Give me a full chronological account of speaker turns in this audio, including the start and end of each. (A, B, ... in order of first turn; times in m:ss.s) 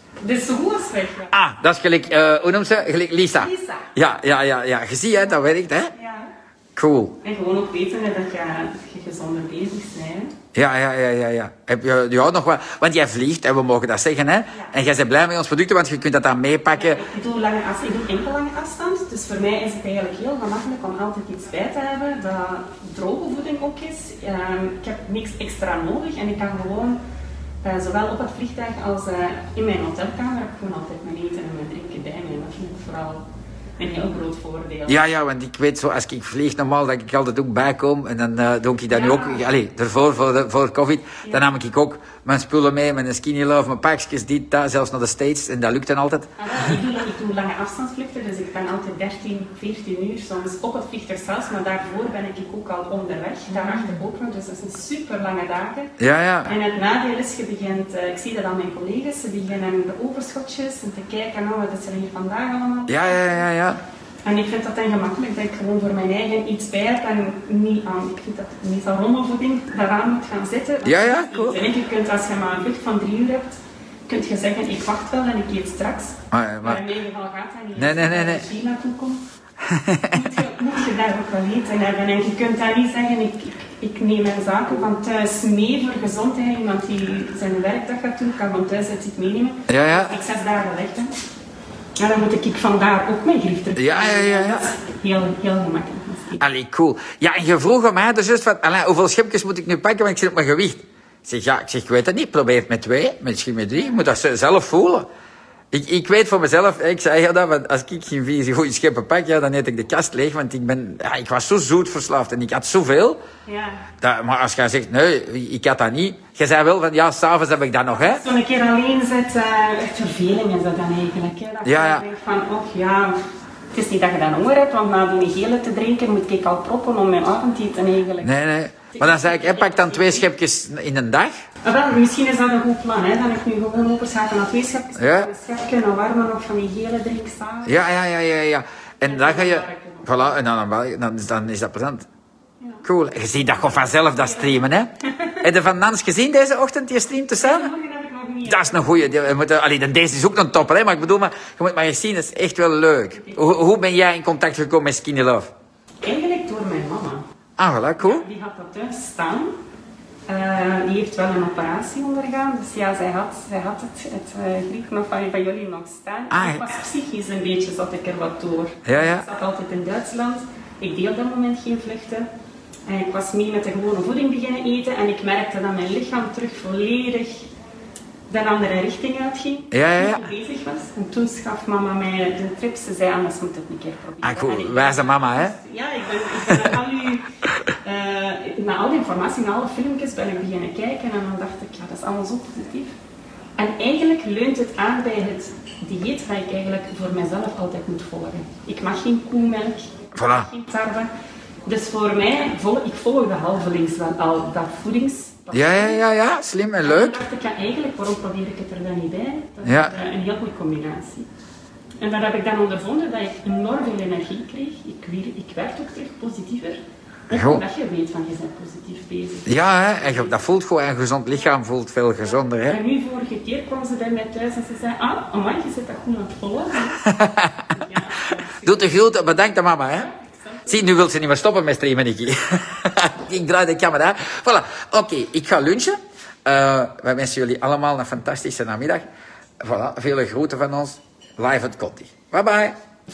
0:00.2-0:01.3 A
0:01.3-0:05.9 B
0:03.3-0:03.9 A
0:05.9-0:06.3 A
0:06.8-0:07.2 B
0:07.2-0:10.3 A
0:10.5-0:17.0 B
0:16.7-0:27.0 A
0:27.6-0:33.2 A
0:33.8-0:35.1 A
0:34.9-0:46.3 B
0:38.9-0:39.5 A
0:46.4-0:55.9 A
0:56.0-0:56.5 B
0:56.4-1:03.5 A
1:02.9-1:03.8 B
1:04.2-1:19.2 A
1:10.8-1:11.6 B
1:16.3-1:16.8 B
1:17.7-1:18.4 B
1:19.7-1:20.2 B
1:20.1-1:31.1 A
1:29.7-1:30.2 B
1:32.0-1:36.4 A
1:33.8-1:34.7 B
1:36.4-1:45.1 B
1:45.7-1:53.2 B
1:53.4-1:53.9 A
1:54.0-1:58.2 B
1:58.0-2:03.2 A
2:01.6-2:02.0 B
2:03.7-2:08.3 A
2:08.2-2:11.3 B
2:08.9-2:10.3 A
2:11.6-2:17.9 A
2:15.0-2:15.3 B
2:17.6-2:22.0 B
2:19.0-2:20.4 A
2:22.6-2:25.4 A
2:22.8-2:24.9 B
2:25.4-2:27.7 B
2:27.4-2:29.2 A
2:28.4-2:35.5 B
2:33.1-2:33.6 A
2:36.0-2:37.2 A
2:37.6-2:38.2 B
2:38.0-2:39.5 A
2:40.3-2:52.2 A
2:46.3-2:46.7 B
2:48.8-2:49.2 B
2:52.9-2:57.5 A
2:58.3-3:07.3 A
2:59.7-3:00.2 B
3:04.2-3:05.5 B
3:07.8-3:12.9 A
3:13.6-3:21.1 A
3:20.1-3:20.5 B
3:21.6-3:26.0 A
3:25.5-3:27.2 B
3:26.8-3:31.2 A
3:29.6-3:29.9 B
3:32.0-3:40.4 A
3:37.3-3:37.6 B
3:39.4-3:42.8 B
3:42.6-3:47.0 A
3:47.0-3:47.6 B
3:47.7-3:49.2 A
3:48.6-3:50.1 B
3:49.7-3:51.1 A
3:50.7-3:59.0 B
3:59.6-4:02.7 B